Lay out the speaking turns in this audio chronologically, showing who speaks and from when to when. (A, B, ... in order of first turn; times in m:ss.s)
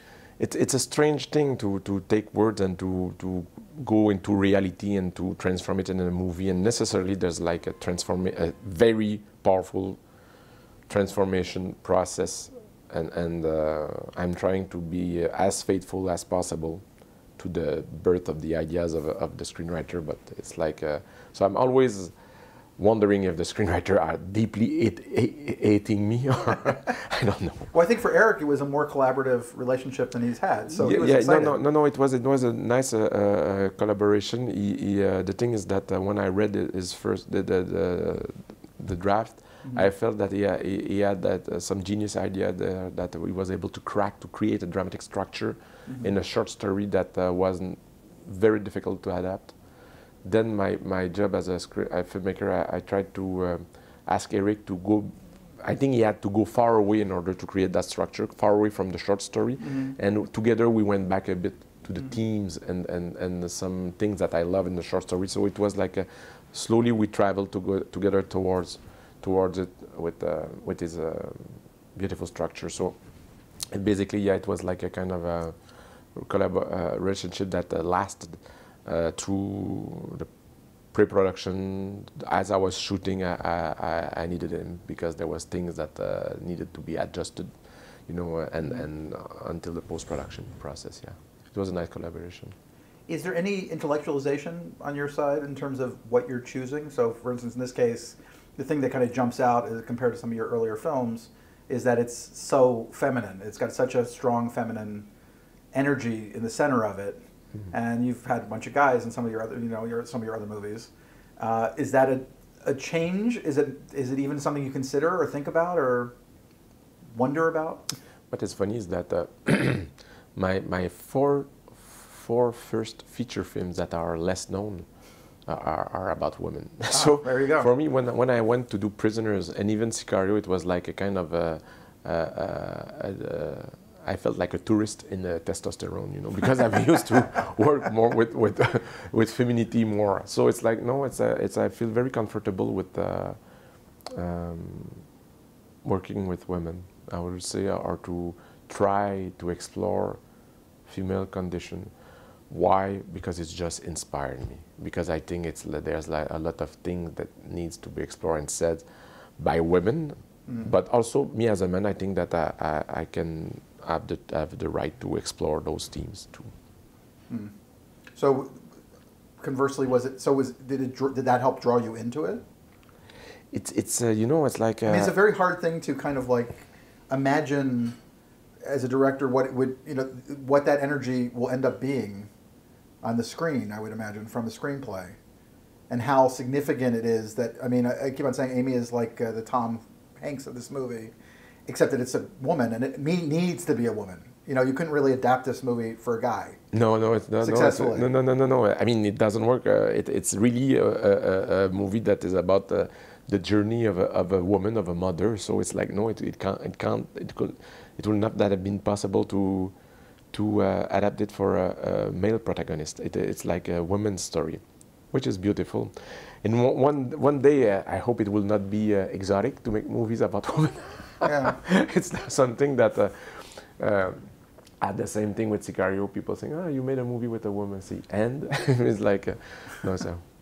0:00.4-0:10.0 A
0:10.9-0:16.8 A
0:17.4-0:22.2 A
0:22.8-0:27.7 A
0:27.7-0:31.6 B
0:30.8-0:49.6 A
0:50.2-1:13.0 A
0:59.6-1:00.0 B
1:13.7-1:20.3 A
1:20.9-1:27.6 A
1:28.1-1:32.6 A
1:33.1-1:45.1 B
1:45.7-1:56.1 B
1:57.1-1:57.9 B
1:58.3-2:23.4 A
2:06.9-2:07.7 B
2:24.0-2:25.1 A
2:25.8-2:30.2 A
2:30.9-2:31.9 A
2:32.5-2:38.9 A
2:39.4-2:46.5 A
2:48.1-2:48.6 B
2:49.4-2:52.4 B
2:53.5-2:55.2 A
2:54.9-2:58.0 B
2:58.6-3:02.3 B
3:03.0-3:05.2 B
3:05.9-3:11.1 B
3:11.7-3:16.6 B
3:16.7-3:29.7 A
3:17.4-3:18.1 B
3:30.3-3:50.2 A
3:41.2-3:41.6 B